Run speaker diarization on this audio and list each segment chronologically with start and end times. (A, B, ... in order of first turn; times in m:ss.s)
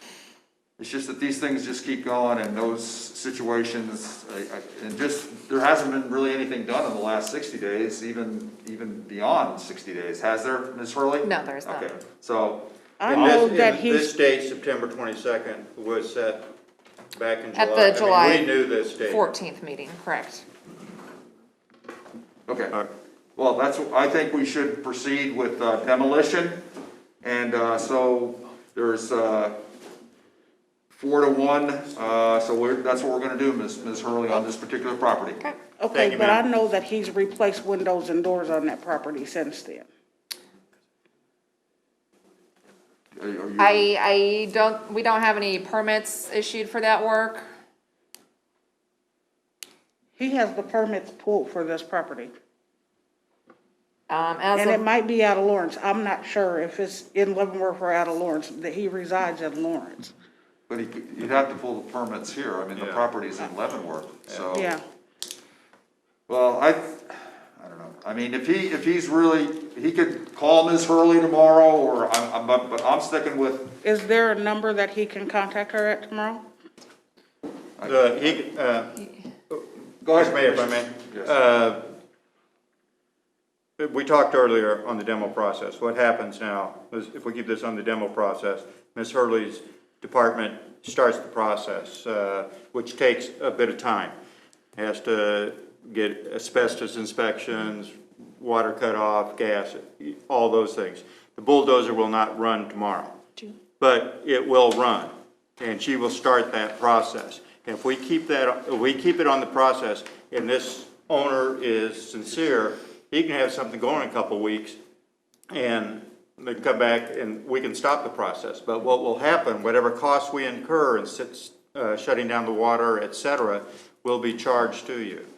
0:00.8-0:13.4 A
0:11.2-0:11.9 B
0:13.0-0:14.1 C
0:13.1-0:16.5 D
0:17.1-0:19.3 D
0:17.6-0:20.4 B
0:22.5-0:22.8 A
0:23.4-0:26.6 A
0:27.2-0:29.6 A
0:30.9-0:35.4 A
0:35.8-0:39.9 C
0:35.9-0:36.4 D
0:43.2-0:43.9 A
0:43.6-0:47.5 B
0:50.2-0:52.3 C
0:54.1-0:54.8 B
0:54.6-1:00.1 C
1:00.7-1:04.7 A
1:02.8-1:03.1 D
1:04.5-1:04.8 C
1:06.3-1:13.8 A
1:13.8-1:16.4 C
1:17.8-1:18.4 A
1:17.8-1:21.9 D
1:20.0-1:21.4 A
1:23.8-1:34.1 D
1:34.8-1:43.2 D
1:43.8-1:54.8 D
1:55.5-2:05.3 D